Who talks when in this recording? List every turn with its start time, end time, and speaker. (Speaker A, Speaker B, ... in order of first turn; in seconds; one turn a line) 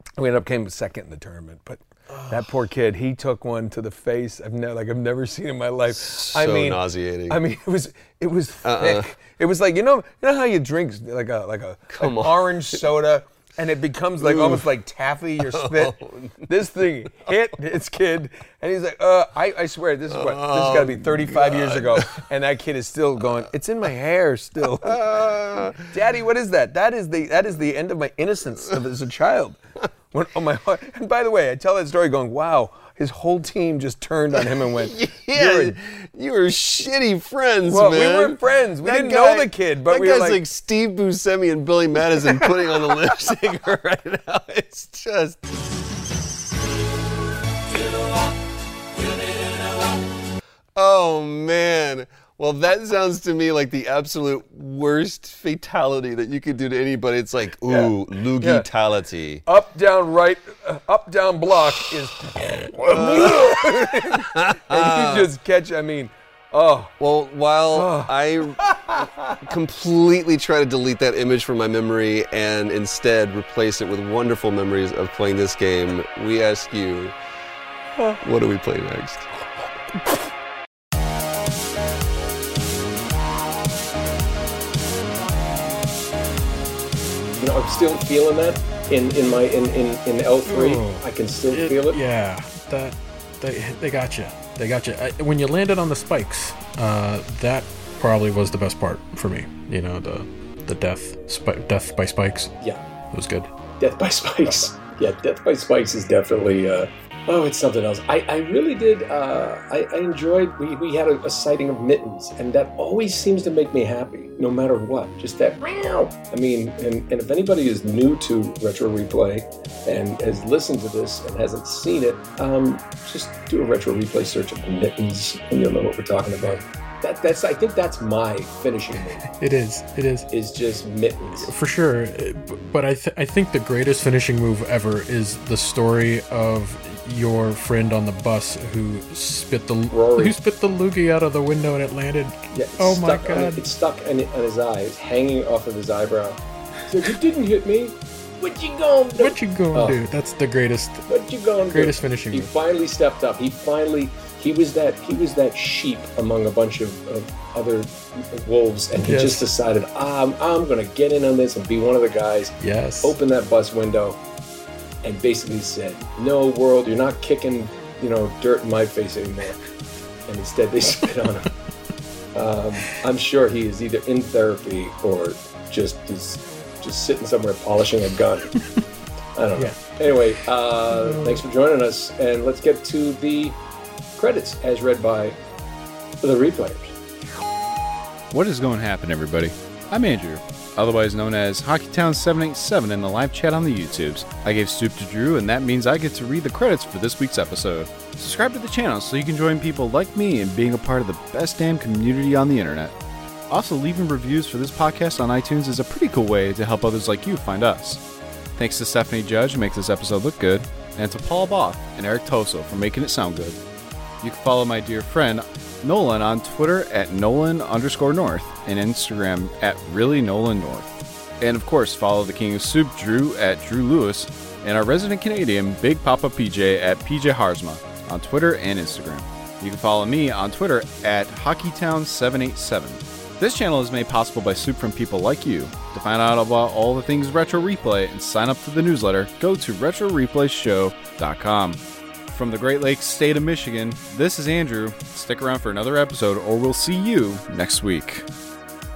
Speaker A: 0.2-25.1
Speaker B: 5.9-7.4
Speaker B: 8.6-9.1
Speaker B: 11.9-12.8
Speaker B: 14.2-14.7
Speaker B: 15.4-16.5
Speaker B: 20.1-22.2
Speaker B: 24.6-25.9
Speaker A: 25.9-29.6
Speaker A: 30.1-35.8
Speaker B: 34.5-45.4
Speaker A: 37.7-40.4
Speaker B: 49.1-49.5
Speaker B: 50.8-59.4
Speaker A: 57.7-58.7
Speaker A: 59.5-66.9
Speaker B: 62.8-65.3
Speaker B: 67.0-77.2
Speaker A: 67.7-69.5
Speaker B: 78.2-79.3
Speaker C: 87.4-92.0
Speaker D: 90.5-102.5
Speaker D: 103.1-103.5
Speaker C: 103.8-129.3
Speaker D: 129.3-130.3
Speaker C: 130.3-131.5
Speaker D: 131.4-143.7
Speaker C: 139.9-140.4
Speaker C: 142.5-150.0
Speaker D: 149.2-151.1
Speaker C: 151.1-164.2
Speaker D: 151.6-152.5
Speaker D: 159.0-159.4
Speaker D: 162.6-163.2
Speaker C: 165.0-169.6
Speaker C: 170.3-171.5
Speaker C: 172.3-178.6
Speaker C: 179.4-183.6
Speaker D: 179.6-180.2
Speaker D: 180.9-181.4
Speaker C: 184.2-185.4
Speaker C: 186.2-186.9
Speaker E: 188.3-202.9
Speaker E: 203.5-208.0
Speaker E: 208.6-213.6
Speaker E: 214.2-248.3